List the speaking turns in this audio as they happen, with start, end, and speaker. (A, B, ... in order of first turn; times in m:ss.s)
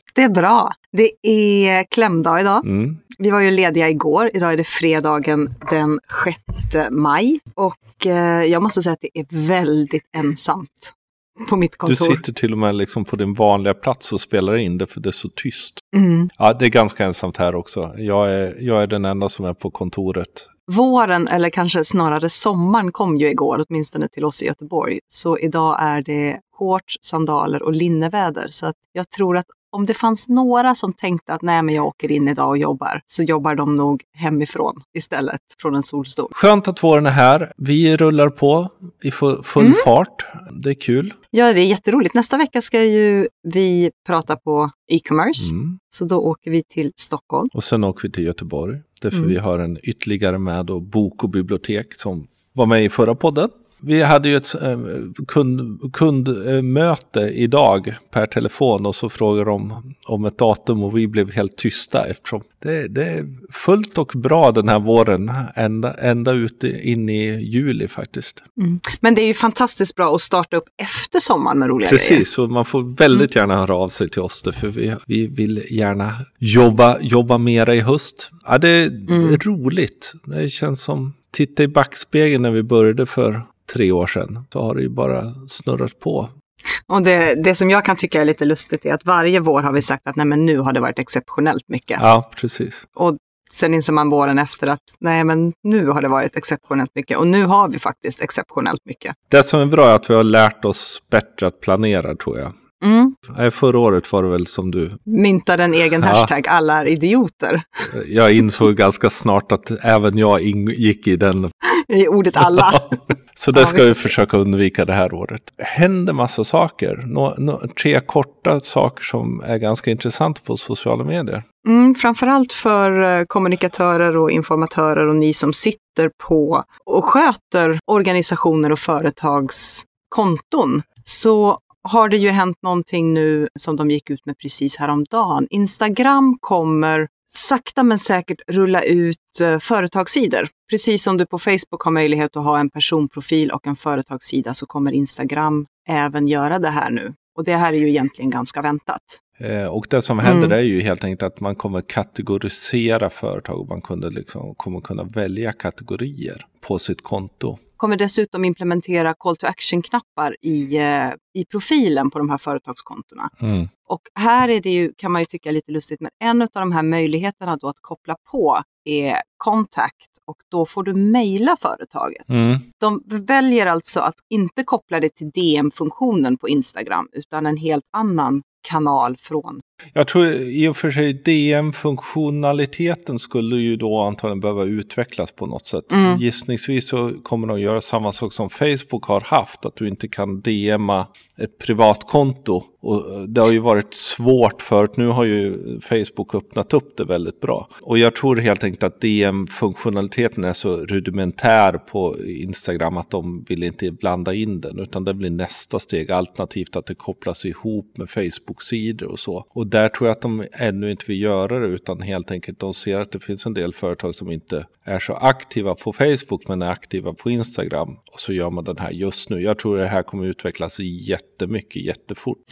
0:00.2-0:12.2 A
0:02.6-0:03.0 B
0:11.9-0:20.5 B
0:15.9-0:16.3 A
0:20.7-0:36.3 A
0:36.3-0:41.2 B
0:39.6-0:39.9 A
0:41.3-0:47.5 A
0:45.4-0:45.8 B
0:47.5-1:08.4 B
1:08.6-1:12.2 A
1:11.8-1:26.3 B
1:19.1-1:19.4 A
1:26.9-1:32.0 A
1:32.0-1:32.8 B
1:33.0-1:39.2 A
1:39.3-1:42.5 B
1:42.8-1:43.2 A
1:43.3-1:45.0 B
1:45.1-1:47.9 A
1:46.0-1:46.3 B
1:47.8-1:51.5 B
1:51.6-1:53.0 A
1:52.4-2:01.4 B
1:53.5-1:54.1 A
2:01.6-2:29.2 A
2:29.4-2:37.6 B
2:30.2-2:30.6 A
2:37.8-2:43.3 A
2:43.4-2:43.7 B
2:43.9-2:59.6 A
2:52.3-2:52.6 B
2:59.9-3:42.4 B
3:05.9-3:06.2 A